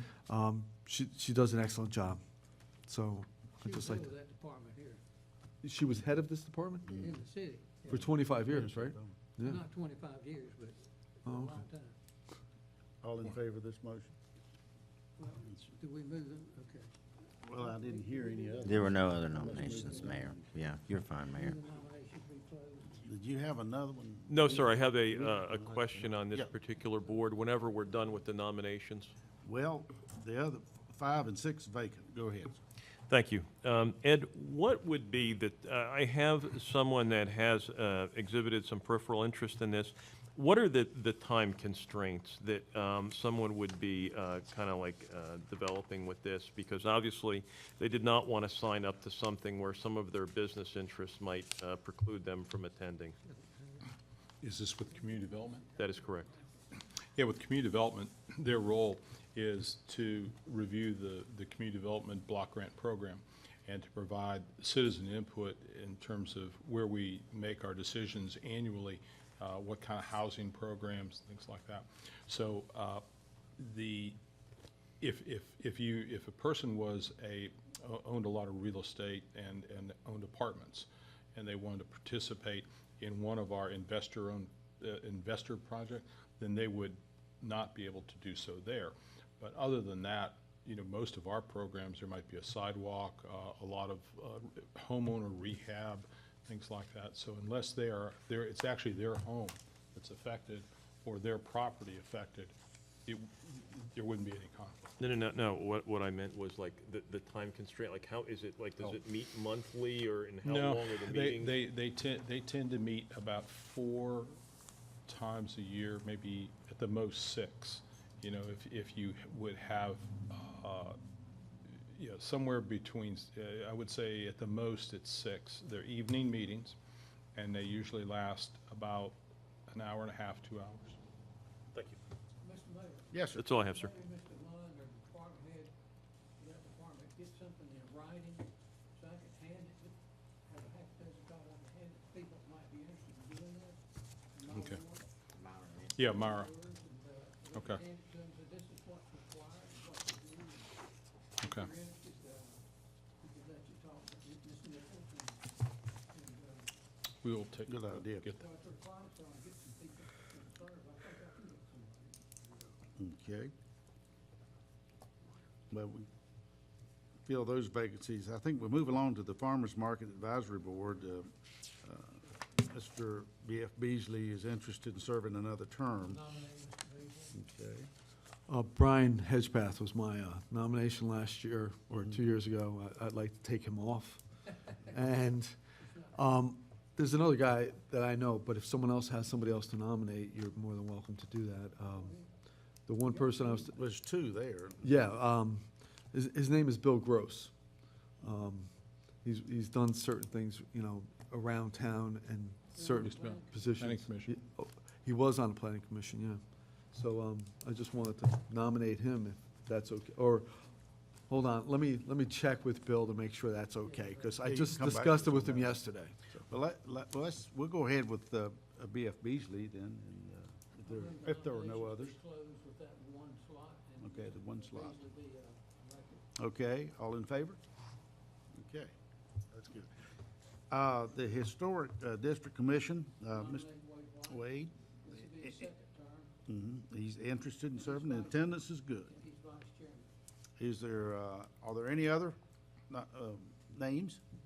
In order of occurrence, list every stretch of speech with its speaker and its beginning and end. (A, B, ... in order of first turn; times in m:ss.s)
0:00.3-0:02.2 A
0:02.9-0:04.1 A
0:03.6-0:05.0 B
0:05.6-0:07.0 A
0:06.9-0:07.8 B
0:07.9-0:09.1 C
0:07.9-0:09.6 A
0:09.4-0:12.0 B
0:11.3-0:11.6 A
0:13.0-0:14.2 C
0:15.2-0:16.9 B
0:17.4-0:20.5 C
0:17.5-0:20.5 B
0:18.6-0:21.6 D
0:21.3-0:23.1 B
0:23.1-0:26.5 C
0:24.3-0:29.1 E
0:29.4-0:32.6 C
0:33.1-0:53.2 E
0:54.4-0:55.7 F
0:55.8-0:56.3 E
0:57.2-1:13.0 F
1:13.6-1:14.2 F
1:15.0-1:42.5 F
1:43.1-1:44.9 F
1:45.0-1:51.6 E
1:50.4-1:54.4 F
1:55.1-2:01.0 F
2:02.0-2:06.8 F
2:07.4-2:09.2 F
2:09.7-2:11.0 F
2:12.4-2:15.7 B
2:13.1-2:13.4 C
2:13.4-2:13.9 E
2:16.4-2:23.8 B
2:24.3-2:25.1 B
2:24.5-2:24.8 F
2:25.3-2:26.0 D
2:26.0-2:26.5 F
2:26.0-2:30.8 B
2:27.6-2:27.8 F
2:31.4-2:32.6 B
2:31.4-2:31.7 F
2:33.2-2:35.5 B
2:36.1-2:36.7 B
2:37.2-2:38.4 F
2:37.7-2:38.3 C
2:38.3-2:42.6 B
2:43.0-2:43.5 C
2:45.7-2:46.1 C
2:47.2-2:51.3 C
2:51.8-2:56.2 C
2:56.0-2:57.4 B
2:57.4-2:57.9 C
2:58.5-3:04.2 A
3:01.9-3:02.2 C
3:04.9-3:05.6 A
3:05.8-3:06.2 B
3:06.2-3:12.2 A
3:11.9-3:12.3 B
3:12.9-3:13.8 A
3:13.0-3:13.7 B
3:13.7-3:14.9 C
3:14.8-3:17.5 A
3:18.2-3:18.7 A
3:19.2-3:26.4 A
3:22.7-3:23.8 B
3:23.0-3:24.4 F
3:26.9-3:30.5 A
3:31.3-3:36.2 A
3:33.8-3:34.5 B
3:34.4-3:35.8 C
3:36.4-3:42.2 C
3:40.8-3:46.2 B
3:44.0-3:45.0 C
3:46.4-3:47.6 C
3:48.6-3:48.9 C
3:49.5-3:49.9 C
3:50.7-3:53.7 C
3:53.3-3:56.3 B
3:54.3-3:54.7 C
3:56.5-3:59.1 C
3:57.7-4:00.1 B
4:00.6-4:02.4 C
4:02.9-4:04.2 C